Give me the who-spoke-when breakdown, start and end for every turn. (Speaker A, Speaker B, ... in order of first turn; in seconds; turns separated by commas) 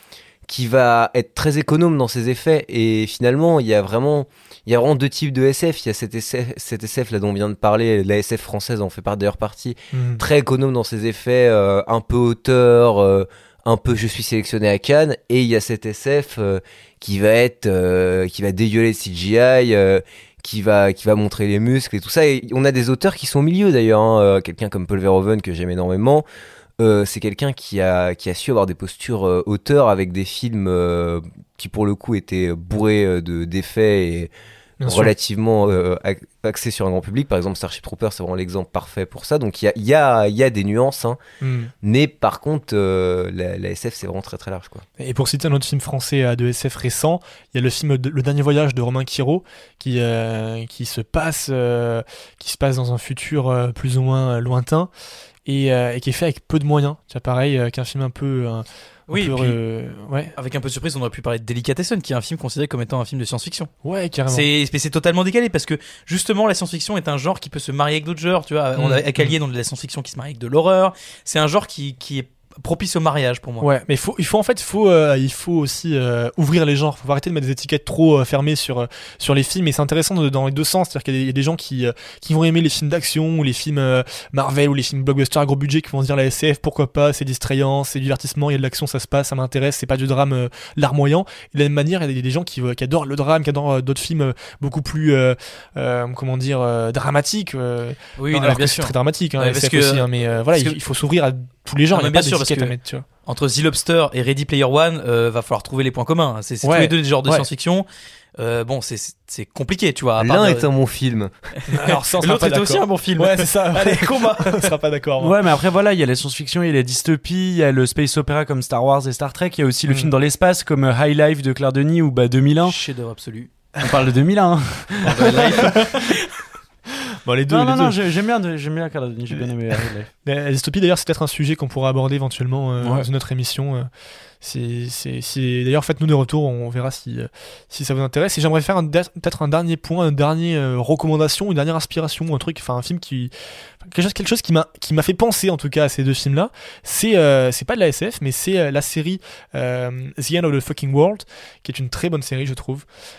Speaker A: 0.5-26.2, Speaker B: 9.9-10.2, Speaker A: 26.8-34.3, Speaker B: 34.8-35.1, Speaker A: 34.9-41.2, Speaker B: 41.4-41.7, Speaker A: 41.8-44.9, Speaker B: 45.0-54.9, Speaker B: 55.5-60.3, Speaker C: 59.1-59.6, Speaker C: 60.4-63.7, Speaker B: 63.8-64.5, Speaker C: 64.3-73.7, Speaker B: 68.8-69.3, Speaker B: 73.6-103.1, Speaker C: 98.2-100.8, Speaker C: 101.9-107.9, Speaker B: 106.6-107.5, Speaker C: 108.4-110.7, Speaker A: 110.2-111.3, Speaker B: 111.7-115.3, Speaker C: 111.9-114.7, Speaker D: 115.2-122.8, Speaker B: 119.9-120.1, Speaker C: 122.6-123.5, Speaker D: 123.8-125.8, Speaker C: 125.1-126.3, Speaker B: 125.6-125.9, Speaker B: 127.3-128.0, Speaker D: 127.5-130.1, Speaker B: 130.2-133.9, Speaker D: 132.8-133.1, Speaker B: 134.4-143.3, Speaker B: 143.8-152.8